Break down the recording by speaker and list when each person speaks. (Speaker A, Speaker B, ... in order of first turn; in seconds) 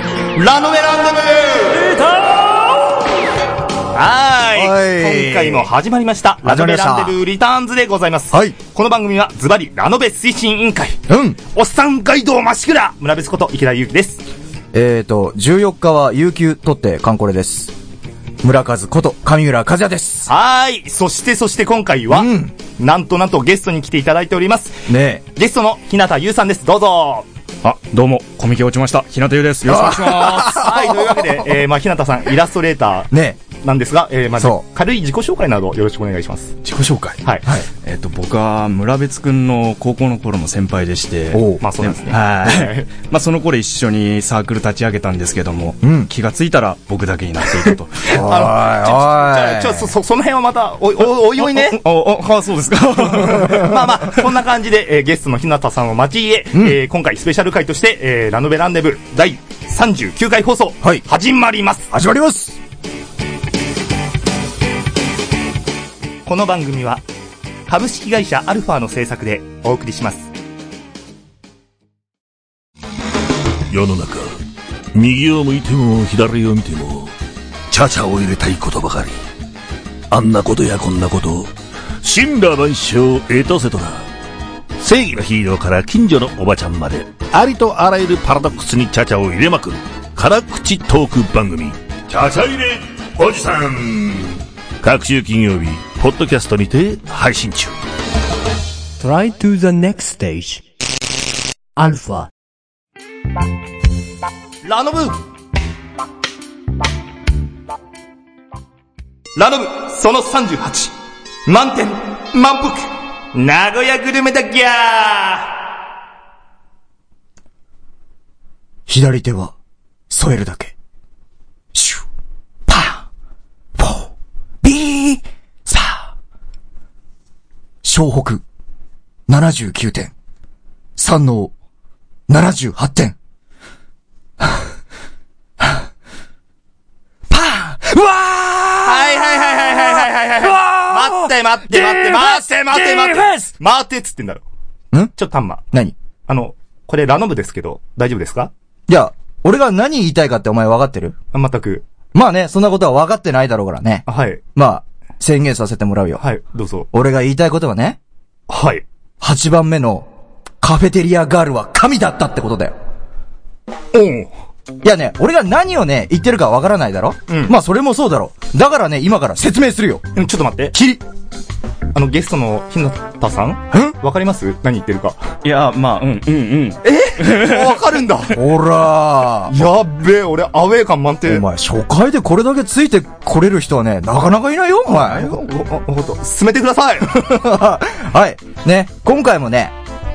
Speaker A: 0.3-2.0, 3.9-11.0, 11.5-14.2, 20.3-27.2, 29.9-33.1, 33.6-36.5, 41.6-42.9, 48.1-51.8, 53.2-61.9, 66.2-67.0, 67.7-70.3, 104.6-105.2, 109.3-110.9, 111.5-115.5, 138.8-144.4, 145.1-145.6, 146.3-148.5, 151.3-151.8, 154.1-154.4, 156.2-156.9, 158.5-158.8, 163.9-164.3, 167.3-167.6, 170.2-170.7, 171.9-175.2, 176.8-178.4, 179.5-181.4, 184.9-187.2
Speaker B: 4.5-5.7, 6.4-7.2, 8.3-8.6, 11.1-11.4, 14.7-17.8, 18.4-20.3, 22.1-22.5, 24.9-25.2, 29.6-31.6, 33.1-33.4, 34.4-34.6, 41.3-41.6, 45.8-46.1, 48.1-49.9, 56.5-56.8, 61.9-62.6, 118.9-119.5, 120.1-120.7, 121.7-122.0, 122.7-123.0, 123.8-124.1, 124.6-126.1, 127.8-128.4, 129.3-130.1, 131.0-131.5, 132.3-133.2, 137.3-139.6, 140.6-141.0, 141.9-142.2, 143.1-143.4, 148.9-151.2, 152.1-156.2, 156.9-158.0, 159.2-160.1, 160.6-162.8, 164.8-170.1, 170.7-171.0, 178.3-179.7, 181.2-185.4, 187.1-189.7
Speaker C: 27.6-30.5, 36.6-37.2, 37.7-48.2, 51.4-54.1, 175.4-177.9
Speaker D: 73.7-74.4, 74.9-77.1, 77.7-79.2, 80.1-84.0, 84.8-97.7
Speaker E: 99.0-100.6, 101.8-102.3